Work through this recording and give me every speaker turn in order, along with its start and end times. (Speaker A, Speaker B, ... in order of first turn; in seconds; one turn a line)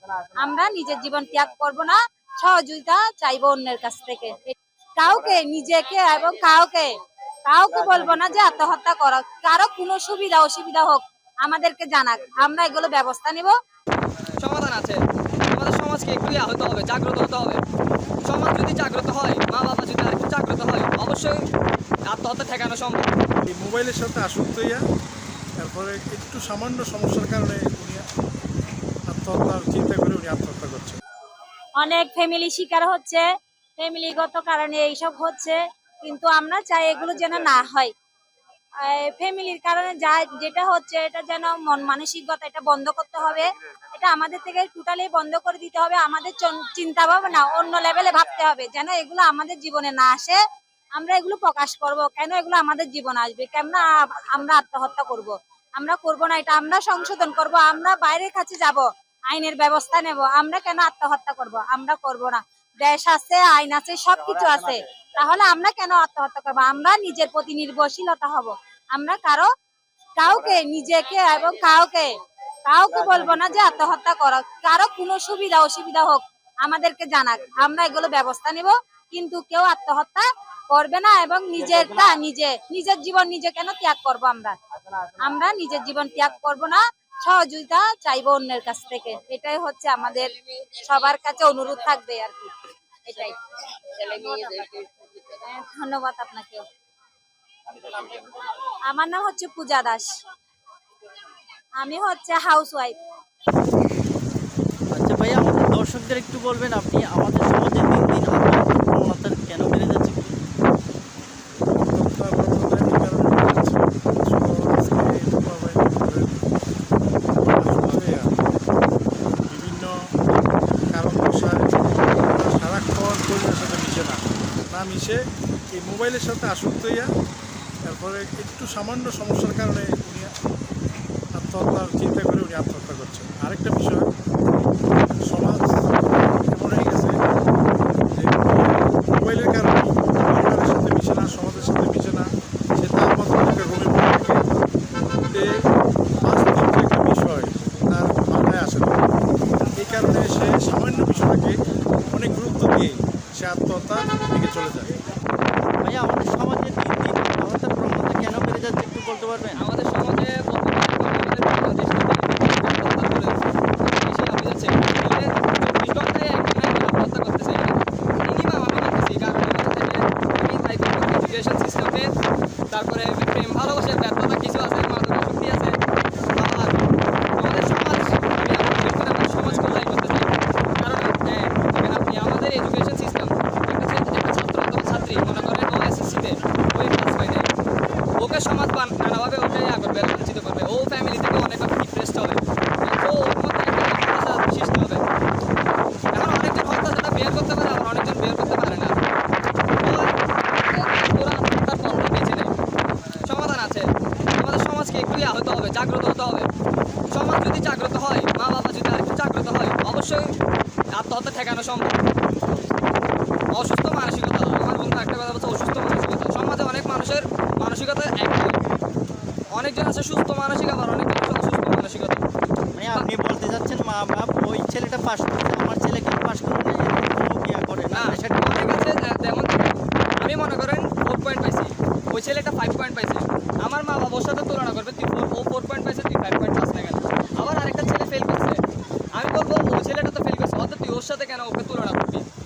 Speaker A: 0.3-6.9
Speaker A: 7.5-13.5
Speaker B: 7.8-8.5
Speaker C: 14.4-17.6
Speaker C: 18.2-21.4
Speaker C: 22.1-23.1
Speaker D: 23.5-24.8
Speaker D: 25.6-28.0
Speaker D: 29.1-31.0
Speaker A: 31.8-33.2
Speaker A: 33.8-37.9
Speaker A: 38.8-50.4
Speaker A: 51.0-69.5
Speaker A: 70.2-72.1
Speaker A: 72.7-84.6
Speaker A: 85.2-92.5
Speaker A: 93.0-96.7
Speaker A: 97.8-98.3
Speaker A: 98.9-100.2
Speaker A: 101.8-103.0
Speaker B: 104.9-110.3
Speaker D: 111.7-116.4
Speaker D: 117.4-118.3
Speaker D: 119.5-119.9
Speaker D: 120.9-125.2
Speaker D: 125.7-127.1
Speaker D: 127.9-130.3
Speaker D: 131.3-134.0
Speaker D: 135.3-137.1
Speaker D: 138.1-144.4
Speaker D: 146.2-149.0
Speaker D: 149.8-151.6
Speaker D: 152.1-154.9
Speaker B: 155.8-159.6
Speaker C: 159.5-172.1
Speaker C: 172.7-175.8
Speaker C: 176.3-187.5
Speaker C: 188.2-195.0
Speaker C: 196.1-199.0
Speaker C: 199.8-202.5
Speaker C: 203.2-206.5
Speaker C: 207.1-210.3
Speaker C: 210.9-212.0
Speaker C: 213.5-218.6
Speaker C: 219.5-222.2
Speaker B: 222.7-228.7
Speaker C: 227.9-238.6
Speaker C: 239.1-242.3